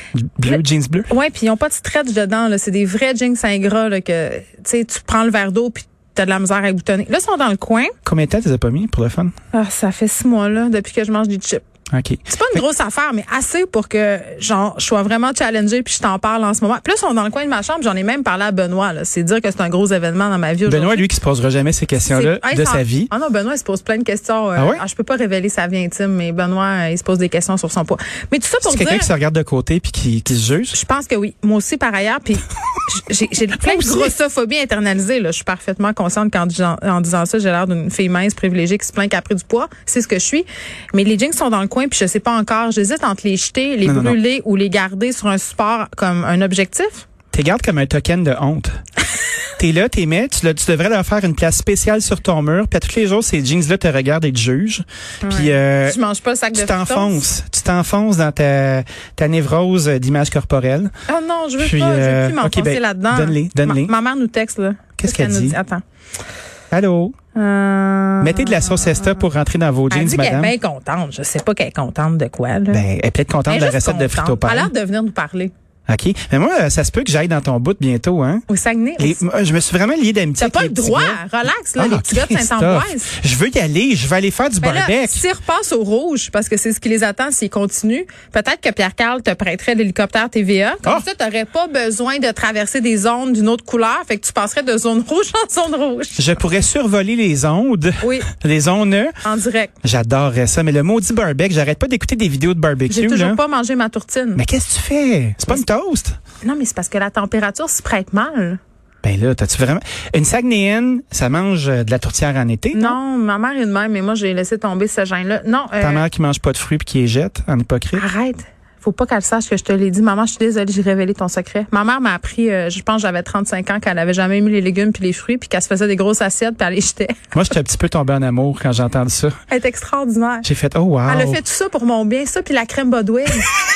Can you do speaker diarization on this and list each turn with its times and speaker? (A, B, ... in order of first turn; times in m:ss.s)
0:00.1-0:01.1 A
0:00.4-0:07.9 B
0:08.0-0:09.3 A
0:09.5-0:11.6 B
0:11.9-0:12.6 A
0:12.3-0:21.0 B
0:20.6-0:23.1 A
0:22.0-0:29.1 B
0:24.5-0:24.8 A
0:28.6-0:30.8 A
0:30.7-0:47.0 B
0:33.6-0:34.1 A
0:43.8-0:44.2 A
0:47.3-0:48.7 A
0:49.6-0:56.0 A
0:55.2-0:57.2 B
0:56.5-1:00.9 A
1:01.1-1:05.8 B
1:01.6-1:03.9 A
1:05.0-1:05.6 A
1:06.7-1:07.1 A
1:07.3-1:09.2 B
1:08.2-1:10.5 A
1:09.9-1:12.8 B
1:12.7-1:14.7 A
1:13.5-1:15.5 B
1:15.9-1:18.4 A
1:18.5-1:19.2 B
1:19.0-1:21.2 A
1:20.4-1:23.1 B
1:21.8-1:25.2 A
1:24.6-1:36.3 B
1:36.2-1:39.2 A
1:38.0-1:38.3 B
1:39.2-1:39.7 B
1:39.8-1:43.4 A
1:42.9-1:44.4 B
1:44.4-1:46.1 A
1:46.4-1:48.6 B
1:49.0-1:53.0 A
1:52.7-1:56.0 B
1:55.8-1:58.0 A
1:57.9-2:07.2 B
2:07.3-2:09.3 A
2:09.5-2:10.5 B
2:10.4-2:11.4 A
2:11.0-2:13.5 B